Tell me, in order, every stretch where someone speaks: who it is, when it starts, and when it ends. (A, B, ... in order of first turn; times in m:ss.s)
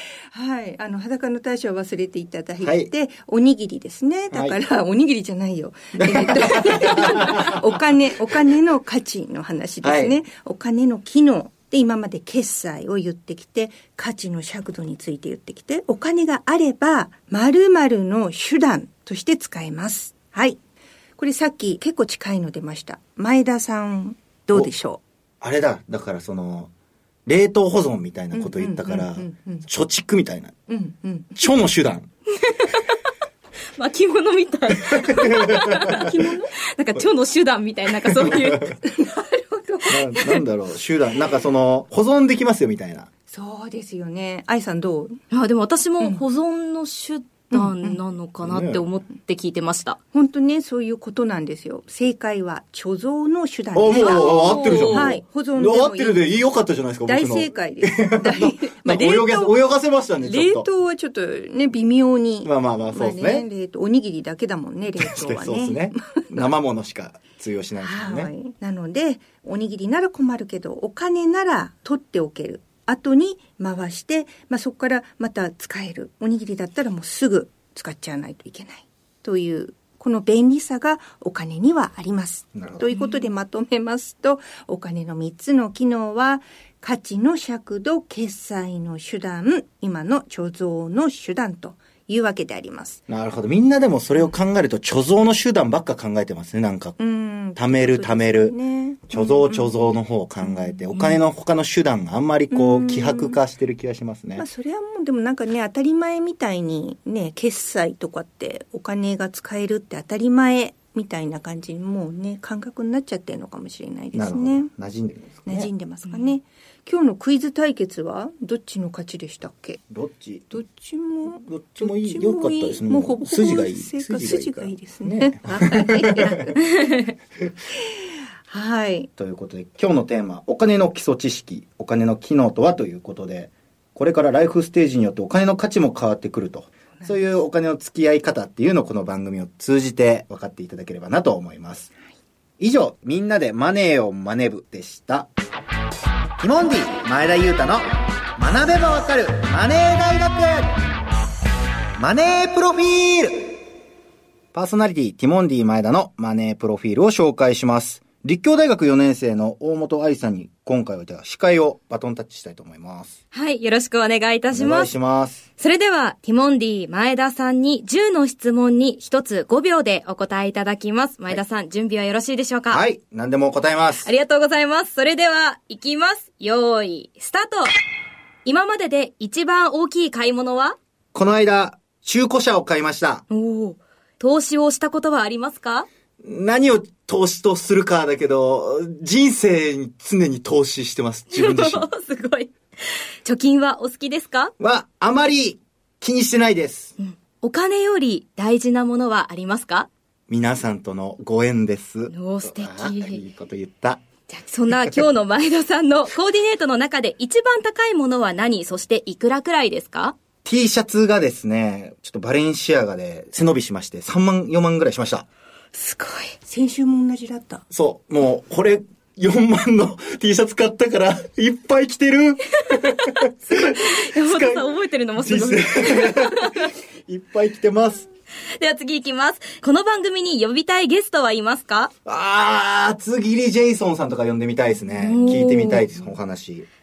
0:00.3-0:20.6 A
0:02.6-0:02.9 B
0:04.3-0:04.6 B
0:06.0-0:07.6 B
0:09.8-0:10.2 B
0:21.2-0:25.0 A
0:25.4-0:26.7 B
0:27.2-0:30.6 B
0:28.3-0:29.6 A
0:30.7-0:31.3 A
0:31.4-0:32.1 B
0:32.4-0:32.9 C
0:33.8-0:36.2 C
0:34.9-0:36.1 B
0:35.8-0:36.5 A
0:36.7-0:38.8 C
0:38.2-0:38.7 B
0:38.8-0:40.4 A
0:39.9-0:43.1 B
0:43.3-0:45.2 A
0:45.3-0:50.0 C
0:47.5-0:48.0 A
0:48.4-0:48.8 B
0:50.1-0:56.2 A
0:53.7-1:00.7 B
0:53.9-0:55.1 C
0:57.0-0:59.6 A
1:00.2-1:06.5 A
1:02.4-1:03.5 B
1:05.0-1:08.3 B
1:07.8-1:33.0 A
1:22.5-1:22.9 B
1:23.0-1:23.3 C
1:33.1-1:37.0 B
1:37.0-1:39.7 A
1:37.5-1:38.6 B
1:39.1-1:44.4 B
1:40.4-1:40.8 A
1:42.5-1:43.4 A
1:44.4-1:54.7 A
1:54.1-1:55.7 B
1:55.4-1:59.8 A
1:56.1-1:56.4 C
1:59.9-2:00.6 B
2:00.5-2:06.9 A
2:01.2-2:06.4 B
2:08.5-2:09.1 A
2:09.2-2:21.9 B
2:22.6-2:25.3 B
2:26.4-2:30.8 B
2:32.0-2:33.6 B
2:34.5-2:43.2 B
2:43.3-2:44.9 C
2:44.5-2:45.4 B
2:45.6-2:52.8 C
2:52.7-2:54.1 B
2:54.0-2:57.7 C
2:58.4-3:00.8 C
3:01.1-3:03.2 B
3:03.3-3:05.9 C
3:06.2-3:11.9 B
3:11.3-3:14.5 C
3:14.6-3:16.9 B
3:17.0-3:19.9 C
3:20.3-3:24.0 B
3:22.1-3:23.2 C
3:24.3-3:30.2 C
3:30.4-3:35.3 B
3:35.7-3:36.4 C
3:36.4-3:37.6 A
3:37.7-3:48.1 B
3:42.7-3:46.7 C
3:48.6-3:51.9 C
3:52.0-3:56.7 B
3:55.0-3:55.9 C